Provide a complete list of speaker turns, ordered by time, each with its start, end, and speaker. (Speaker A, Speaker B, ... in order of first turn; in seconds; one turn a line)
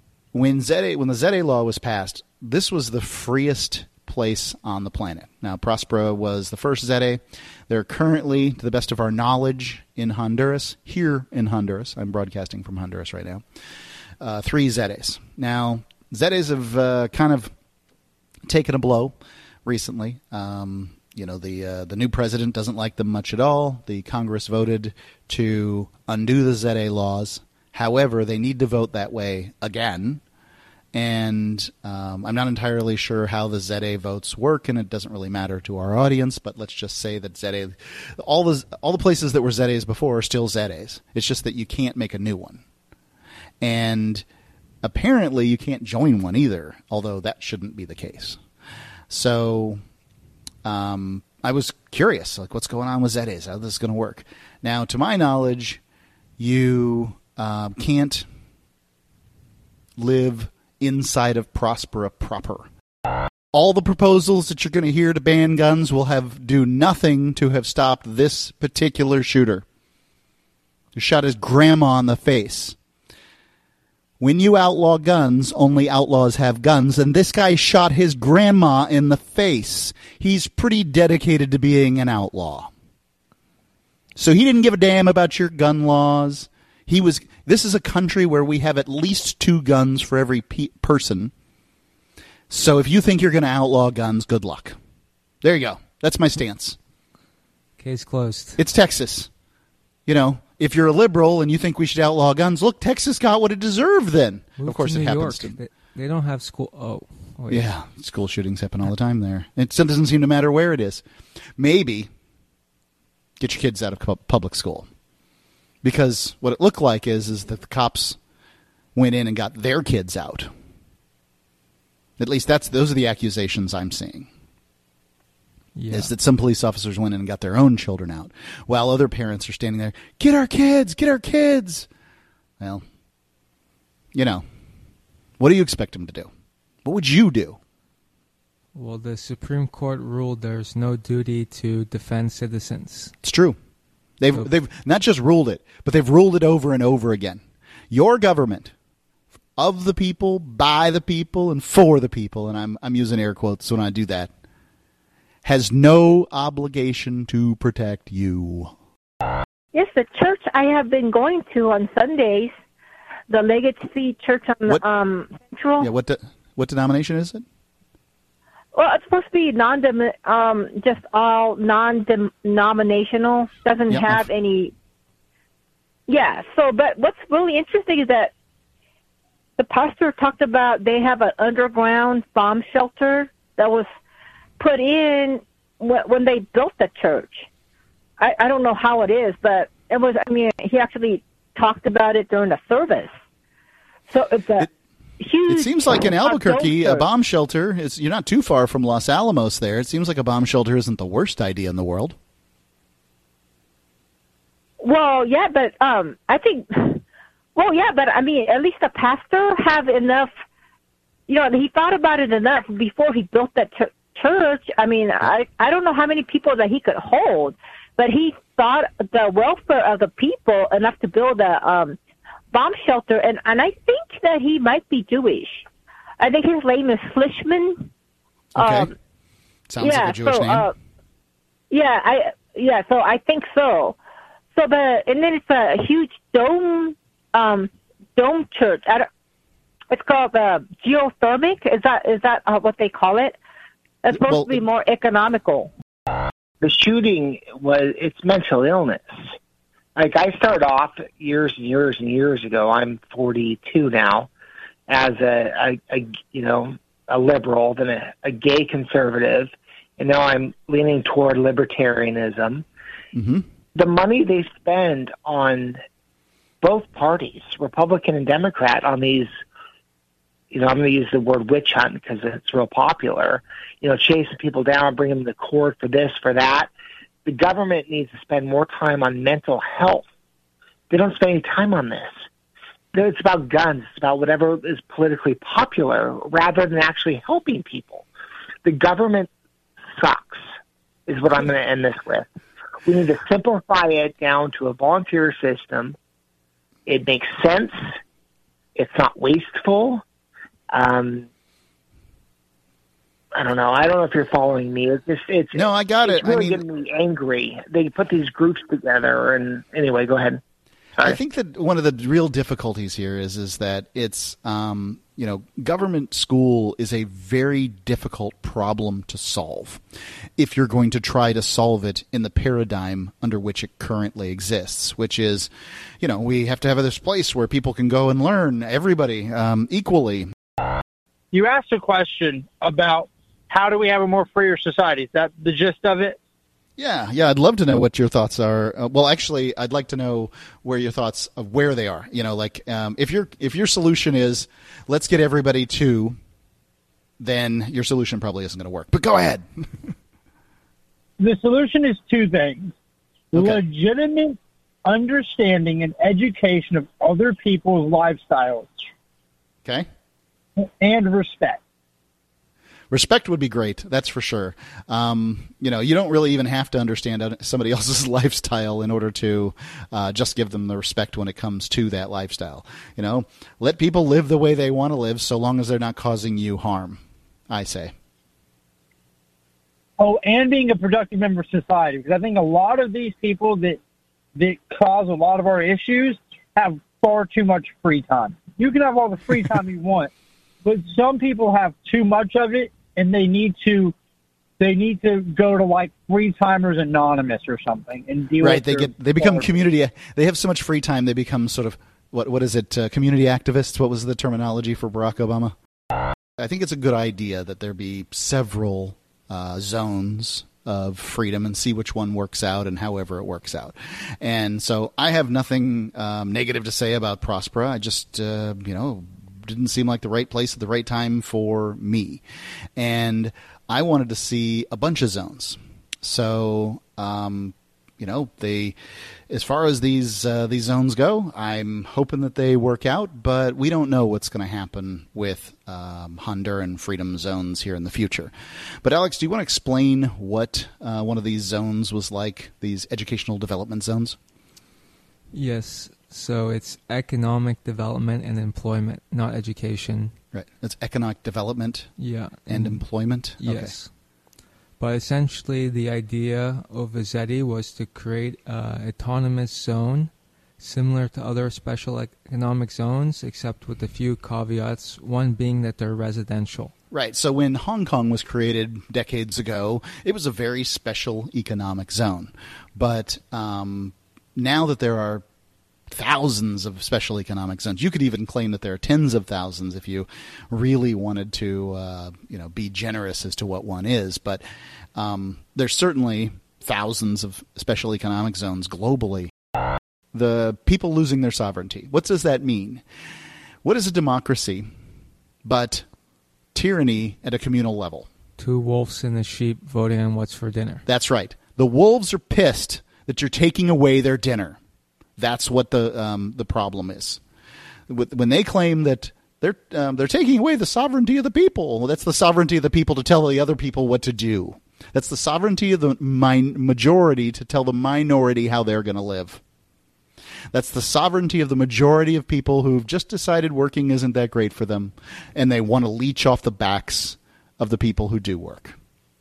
Speaker A: 0.3-13.4
Speaker A: 14.2-17.5
Speaker A: 18.5-30.2
Speaker A: 30.9-42.6
Speaker A: 43.6-44.3
Speaker A: 44.8-48.4
Speaker A: 49.1-49.8
Speaker A: 50.6-55.8
Speaker A: 56.4-58.3
Speaker A: 60.0-62.7
Speaker A: 63.5-69.7
Speaker A: 71.0-72.8
Speaker A: 74.2-82.7
Speaker A: 84.2-91.3
Speaker A: 92.5-94.8
Speaker A: 95.4-96.8
Speaker B: 97.8-98.6
Speaker A: 98.6-99.3
Speaker A: 100.1-105.6
Speaker B: 104.6-107.7
Speaker A: 107.5-111.0
Speaker A: 111.6-112.1
Speaker A: 113.4-114.9
Speaker A: 115.8-118.2
Speaker A: 119.0-120.5
Speaker A: 122.2-124.3
Speaker B: 125.8-126.1
Speaker A: 125.9-131.9
Speaker A: 132.6-132.8
Speaker A: 134.1-134.4
Speaker A: 135.4-136.3
Speaker A: 136.8-137.6
Speaker B: 138.8-143.1
Speaker A: 143.2-143.6
Speaker A: 144.2-148.7
Speaker A: 149.6-154.3
Speaker A: 155.4-158.8
Speaker C: 159.7-162.6
Speaker C: 163.3-165.9
Speaker A: 165.8-167.4
Speaker C: 168.7-174.7
Speaker A: 173.9-174.3
Speaker C: 176.1-178.3
Speaker C: 179.6-183.9
Speaker C: 184.6-187.5
Speaker C: 188.2-193.1
Speaker C: 194.1-194.7
Speaker C: 195.2-197.1
Speaker A: 195.5-202.2
Speaker C: 204.8-207.0
Speaker C: 207.6-210.3
Speaker C: 211.3-222.0
Speaker C: 222.5-225.7
Speaker C: 226.2-227.9
Speaker A: 228.6-228.9
Speaker C: 228.6-228.9
Speaker A: 229.7-230.7
Speaker C: 229.8-230.7
Speaker C: 231.7-234.0
Speaker C: 234.5-239.1
Speaker C: 239.9-243.4
Speaker C: 244.0-245.7
Speaker A: 244.1-244.6
Speaker D: 246.6-249.2
Speaker D: 250.0-254.3
Speaker D: 254.9-262.6
Speaker A: 263.1-263.5
Speaker D: 263.8-265.8
Speaker D: 266.6-269.3
Speaker D: 270.5-276.7
Speaker D: 277.3-280.1
Speaker D: 280.9-282.2
Speaker D: 282.9-288.1
Speaker D: 288.6-289.3
Speaker D: 289.9-290.4
Speaker D: 291.1-292.3
Speaker D: 292.9-296.0
Speaker D: 296.9-297.8
Speaker D: 298.8-300.0
Speaker D: 300.7-301.3
Speaker D: 303.3-310.4
Speaker A: 305.5-306.6
Speaker A: 311.0-319.8
Speaker A: 320.4-325.5
Speaker A: 326.0-330.3
Speaker E: 331.3-336.2
Speaker A: 336.8-346.2
Speaker A: 347.2-349.9
Speaker E: 351.2-352.7
Speaker E: 353.3-358.9
Speaker A: 353.3-353.6
Speaker E: 360.6-361.6
Speaker A: 362.9-377.9
Speaker E: 380.0-383.8
Speaker E: 384.4-390.1
Speaker E: 390.6-393.9
Speaker E: 394.6-399.6
Speaker A: 398.4-405.6
Speaker A: 406.4-422.2
Speaker A: 422.8-428.8
Speaker A: 429.3-438.3
Speaker A: 438.8-444.2
Speaker B: 445.3-450.1
Speaker A: 450.3-451.9
Speaker B: 452.0-452.8
Speaker A: 452.5-453.8
Speaker B: 453.4-453.9
Speaker B: 454.8-466.7
Speaker A: 466.9-475.2
Speaker A: 475.9-484.4
Speaker A: 484.9-489.3
Speaker A: 490.1-492.9
Speaker A: 493.6-494.7
Speaker A: 495.4-495.9
Speaker A: 496.5-498.1
Speaker B: 498.4-500.8
Speaker A: 500.9-504.6
Speaker A: 505.2-507.2
Speaker A: 507.9-519.4
Speaker A: 520.5-528.8